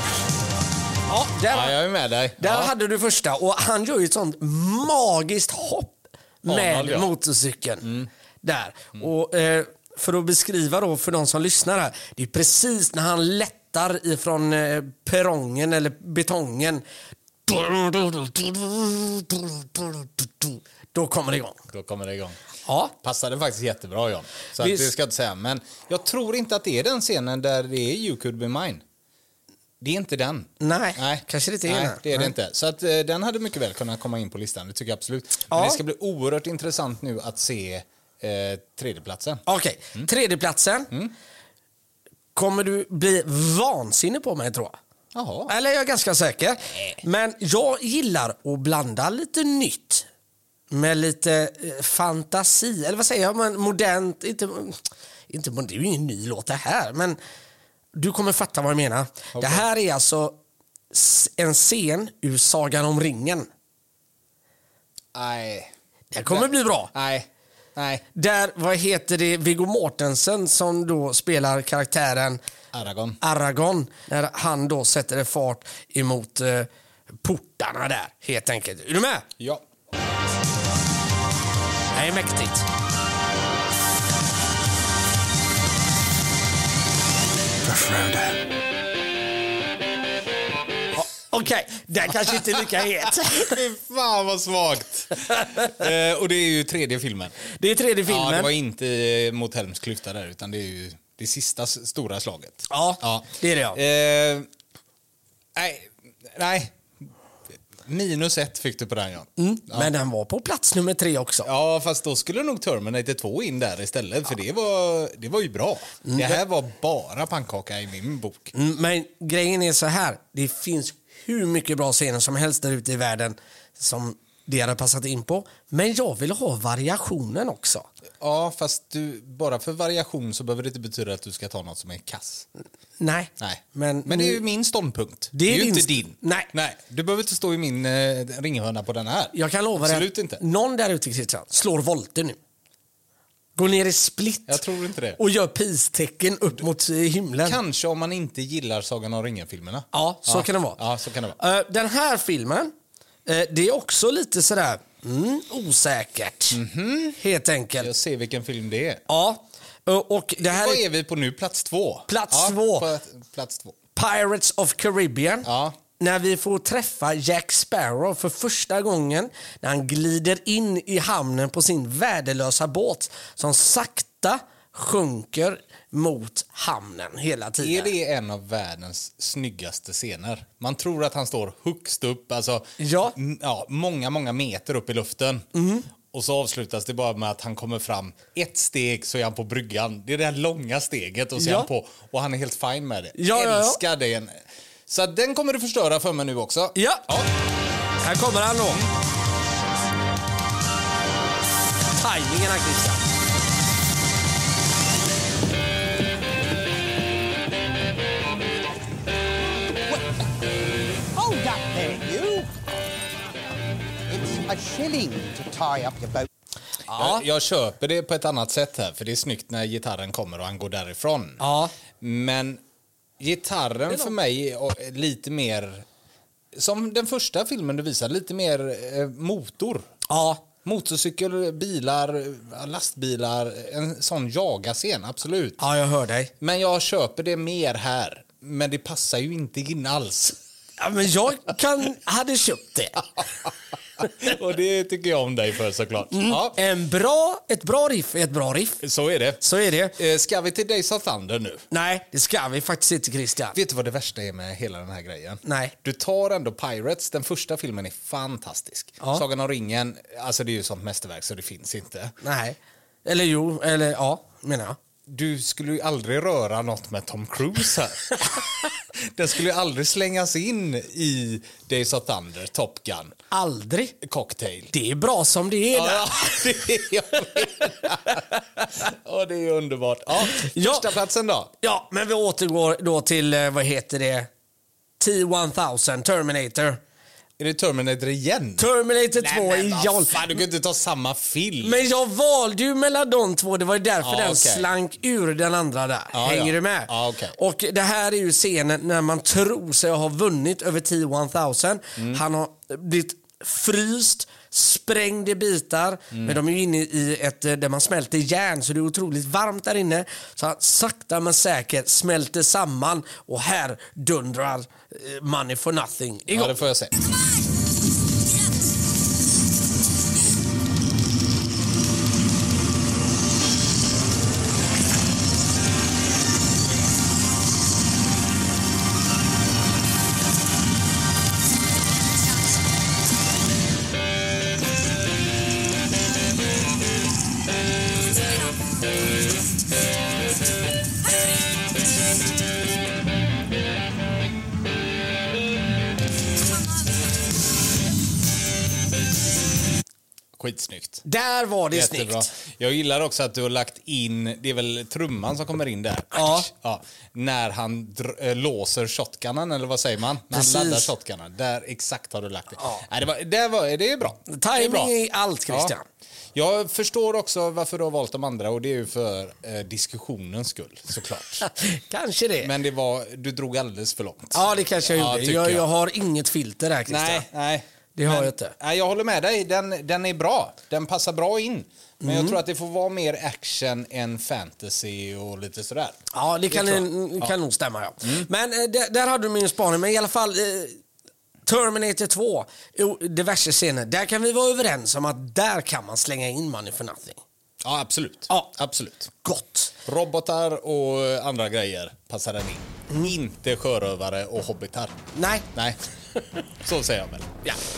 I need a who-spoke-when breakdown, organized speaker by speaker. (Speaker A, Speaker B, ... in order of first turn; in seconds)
Speaker A: 1.1-1.8, 2.4-16.8, 17.4-21.6, 22.6-22.9, 24.6-24.9, 30.6-32.3, 35.5-35.8, 39.5-40.9, 42.3-44.8, 45.5-50.1, 50.7-57.2, 57.9-60.4, 60.9-63.5, 66.1-66.9, 68.1-72.4, 73.2-79.3, 81.9-82.7, 87.8-88.0, 91.0-93.6, 95.4-95.8, 97.4-98.5, 102.7-103.8, 109.4-111.5, 116.0-116.4, 118.5-127.9, 133.0-134.4, 135.3-136.5, 139.3-142.4, 143.6-144.6, 145.2-147.6, 149.9-150.8, 151.4-152.7, 153.2-156.6, 157.2-157.9, 159.1-160.8, 162.1-162.9, 163.9-177.9, 182.8-183.2, 185.5-185.9, 191.4-191.7, 193.1-193.8, 196.7-197.1, 198.0-198.8, 201.9-203.0, 216.9-217.2, 221.4-221.7, 230.1-230.4, 235.6-236.3, 240.8-243.2, 246.1-248.8, 249.4-250.0, 251.7-253.6, 255.4-255.7, 262.2-264.8, 273.3-274.0, 274.7-276.5, 280.3-280.9, 281.6-284.3, 285.0-286.8, 288.6-290.4, 291.6-316.6, 351.0-352.3, 356.1-356.5, 360.3-360.9, 364.3-365.8, 371.4-372.5, 374.3-377.3, 377.9-378.5, 382.0-382.4, 386.1-390.8, 391.4-397.2, 399.2-399.7, 405.1-405.4
Speaker B: 1.5-2.7, 6.5-7.1, 7.8-8.1, 21.7-22.4, 23.0-28.8, 29.8-39.4, 45.1-45.5, 59.3-59.6, 65.1-65.7, 66.2-68.0, 72.7-73.2, 87.8-88.3, 93.3-97.4, 98.0-104.5, 105.5-106.8, 107.8-109.9, 111.4-118.5, 128.2-132.4, 133.4-140.4, 144.5-145.2, 147.4-151.4, 156.5-157.2, 157.8-159.0, 160.4-163.8, 165.4-165.8, 177.6-185.4, 186.1-194.4, 194.9-197.3, 216.9-221.4, 222.0-222.6, 223.2-225.8, 226.5-229.9, 230.6-235.6, 236.4-240.4, 244.0-246.6, 248.8-249.4, 249.9-251.7, 253.5-262.1, 265.1-273.1, 274.0-274.7, 275.7-281.5, 287.4-291.8, 294.0-294.7, 296.1-297.4, 306.1-306.4, 316.3-316.9, 350.4-351.0, 351.7-364.9, 365.5-365.7, 366.3-371.5, 372.4-375.6, 376.9-387.3, 397.6-399.1, 399.8-405.0, 406.6-407.4
Speaker C: 209.9-210.2, 211.0-212.6, 214.1-216.3